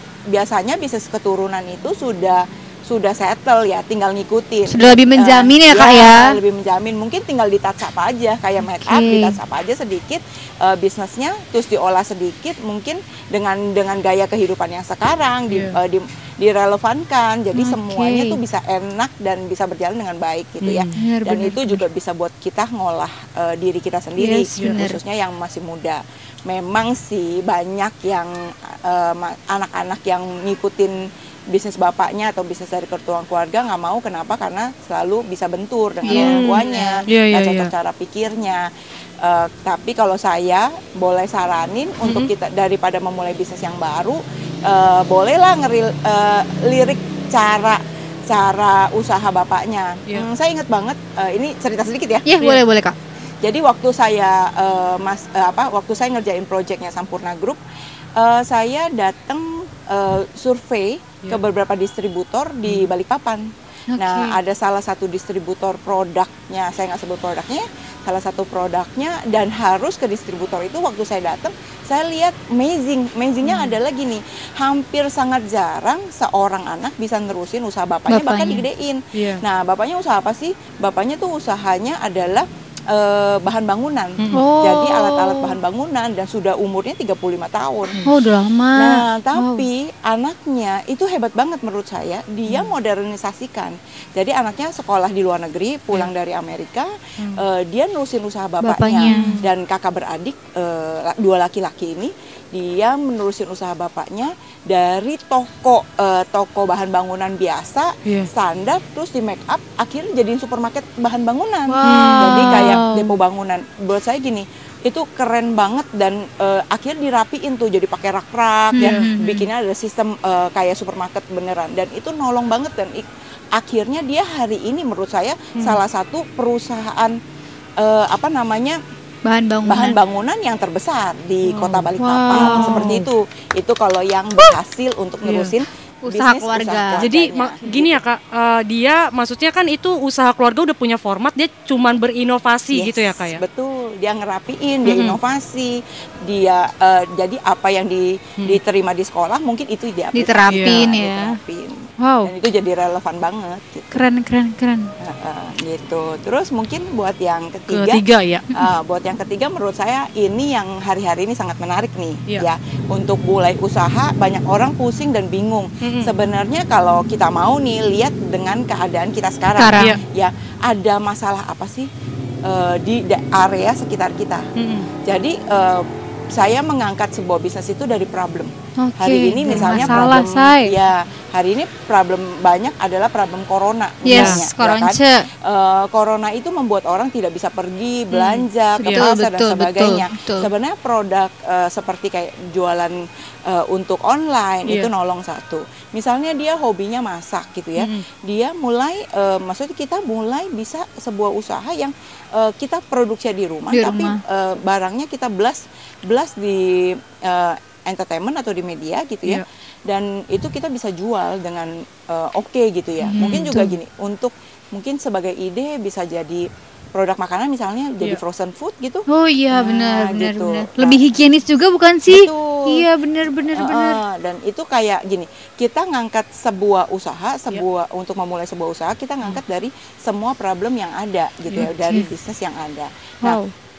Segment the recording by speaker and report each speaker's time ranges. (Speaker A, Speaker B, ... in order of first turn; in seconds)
Speaker A: 0.3-38.7, 39.2-52.3, 53.4-57.6, 58.2-88.0, 88.8-127.2, 127.8-128.8, 129.7-138.0, 142.7-154.0, 155.0-171.9, 172.4-174.5, 175.1-221.1, 222.1-222.9, 223.6-233.4
Speaker B: 4.7-6.4, 8.8-9.4, 17.5-18.4, 20.9-21.8, 24.2-25.0, 36.0-37.1, 52.3-53.0, 63.9-64.4, 78.1-78.6, 84.3-85.6, 88.0-89.7, 98.6-99.4, 111.7-113.2, 118.7-119.5, 129.2-130.0, 132.0-132.9, 136.0-137.1, 150.2-151.4, 152.0-152.3, 153.9-154.9, 169.6-170.0, 178.8-180.8, 184.0-185.3, 188.8-190.5, 203.7-204.2, 213.0-213.7, 219.1-224.0, 231.7-232.1, 233.2-233.5
Speaker C: 15.5-15.8, 20.6-20.9, 36.1-37.7, 42.0-42.3, 79.2-79.4, 84.2-84.5, 92.5-92.7, 97.2-97.4, 99.0-99.5, 108.0-108.3, 111.8-112.8, 118.8-119.1, 125.6-125.8, 131.4-133.1, 135.2-135.5, 137.0-143.4, 144.9-145.2, 150.5-150.9, 157.7-158.5, 165.8-166.1, 174.6-174.9, 179.5-180.0, 184.1-184.4, 188.1-189.1, 197.8-198.1, 213.2-213.6